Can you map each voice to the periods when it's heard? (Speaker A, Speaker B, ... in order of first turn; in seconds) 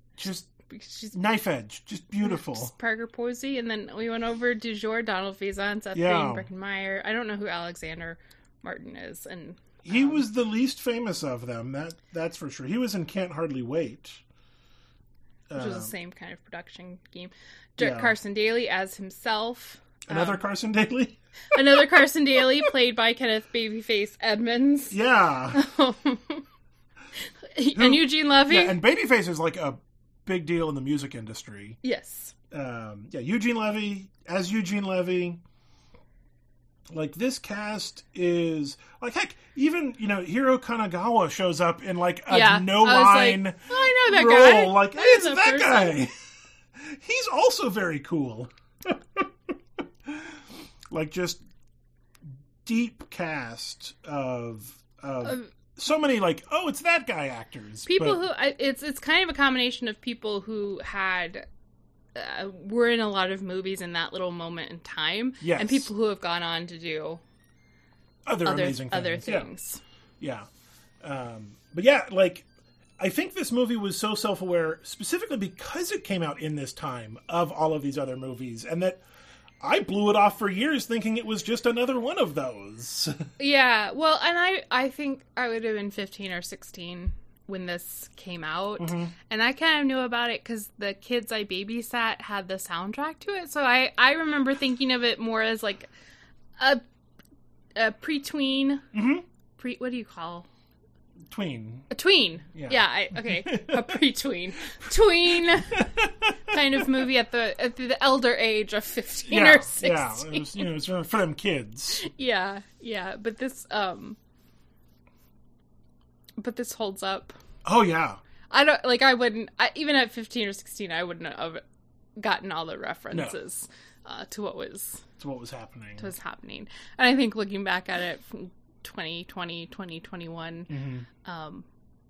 Speaker A: 0.2-0.5, 1.1-2.7, 5.9-6.5, 9.8-14.2, 15.5-15.9, 17.8-18.1, 20.1-21.2, 24.9-25.6, 27.7-31.8, 32.5-35.4, 36.9-46.1, 46.8-49.3, 50.1-50.4, 50.9-51.4, 52.6-58.2, 65.4-65.9, 68.2-69.5, 70.2-70.5, 71.0-72.5, 73.0-79.0, 79.6-83.3, 88.8-89.1, 98.9-99.2, 101.3-101.9, 102.5-104.0, 105.6-106.9, 109.3-112.0, 117.6-118.2, 125.2-126.1, 130.7-131.1
Speaker B: 0.7-1.1, 2.2-10.2, 15.5-20.4, 21.5-24.9, 25.5-26.4, 27.4-28.8, 31.8-32.3, 42.3-46.0, 57.9-61.4, 62.1-67.2, 68.4-69.8, 83.4-95.9, 97.7-98.8, 99.6-100.5, 101.9-105.8, 106.5-110.7, 112.0-114.2, 116.4-117.3, 118.5-121.6, 122.2-125.0, 126.0-130.7, 131.2-131.7